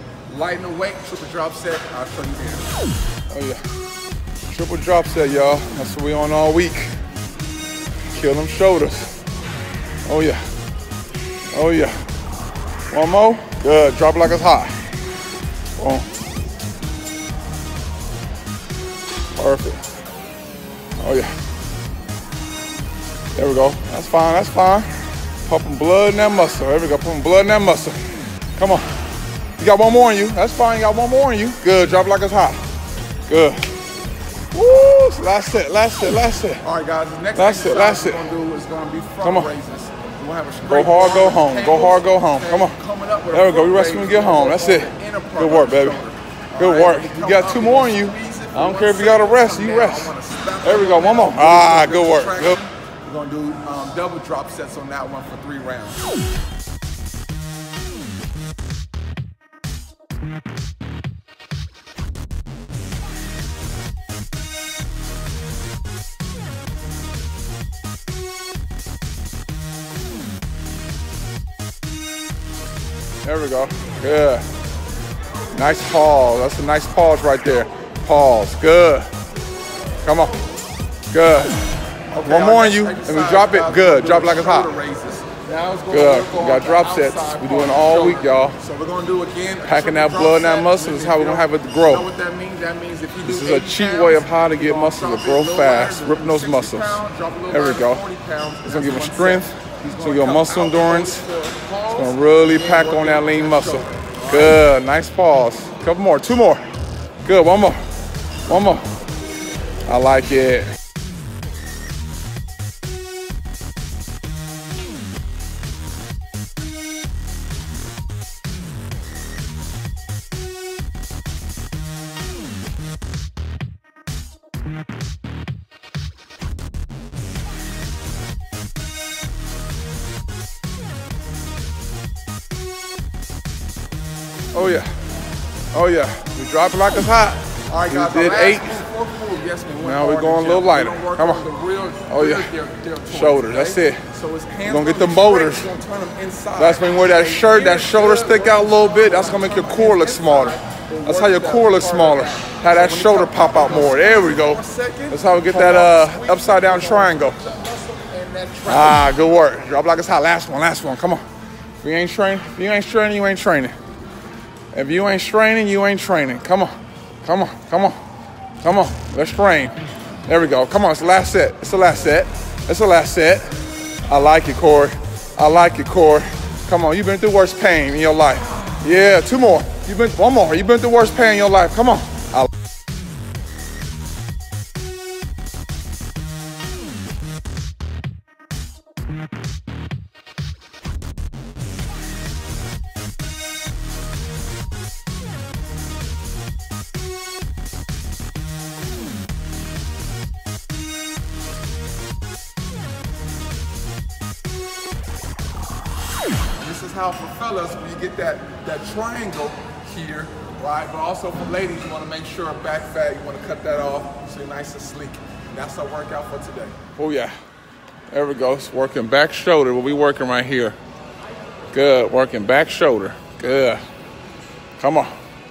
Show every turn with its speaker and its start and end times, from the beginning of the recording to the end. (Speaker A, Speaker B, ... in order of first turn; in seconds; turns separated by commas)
Speaker A: 0.3-2.7, Speaker B: 3.3-3.6, Speaker B: 4.5-6.9, Speaker B: 8.1-9.2, Speaker B: 10.1-10.5, Speaker B: 11.5-12.0, Speaker B: 12.9-14.8, Speaker B: 15.8-16.1, Speaker B: 19.4-19.8, Speaker B: 21.0-21.3, Speaker B: 23.4-24.9, Speaker B: 25.4-28.0, Speaker B: 28.6-28.9, Speaker B: 29.6-32.6, Speaker B: 33.3-33.7, Speaker B: 34.5-36.6, Speaker A: 36.6-56.0, Speaker B: 37.4-38.2, Speaker B: 39.2-39.5, Speaker B: 40.6-42.8, Speaker B: 43.3-46.0, Speaker B: 46.6-52.6, Speaker B: 73.2-74.5, Speaker B: 75.5-79.1, Speaker B: 80.0-80.4, Speaker B: 81.1-81.6, Speaker A: 82.1-104.6, Speaker B: 82.3-84.7, Speaker B: 85.9-88.6, Speaker B: 89.6-92.1, Speaker B: 93.2-98.0, Speaker B: 98.7-101.3, Speaker B: 101.9-106.7, Speaker B: 107.2-107.8, Speaker B: 108.5-108.9, Speaker B: 109.9-110.7, Speaker B: 134.5-134.9, Speaker B: 135.7-138.8, Speaker A: 137.7-159.1, Speaker B: 139.8-141.4, Speaker B: 142.1-142.5, Speaker B: 143.1-144.0, Speaker B: 144.6-145.7, Speaker B: 146.6-157.4, Speaker B: 158.7-161.2, Speaker B: 161.8-163.8, Speaker B: 164.7-168.0, Speaker B: 168.6-173.5, Speaker B: 174.1-182.5, Speaker A: 206.6-216.8, Speaker B: 217.0-217.3, Speaker B: 218.1-220.8, Speaker B: 221.7-223.8, Speaker B: 224.8-225.1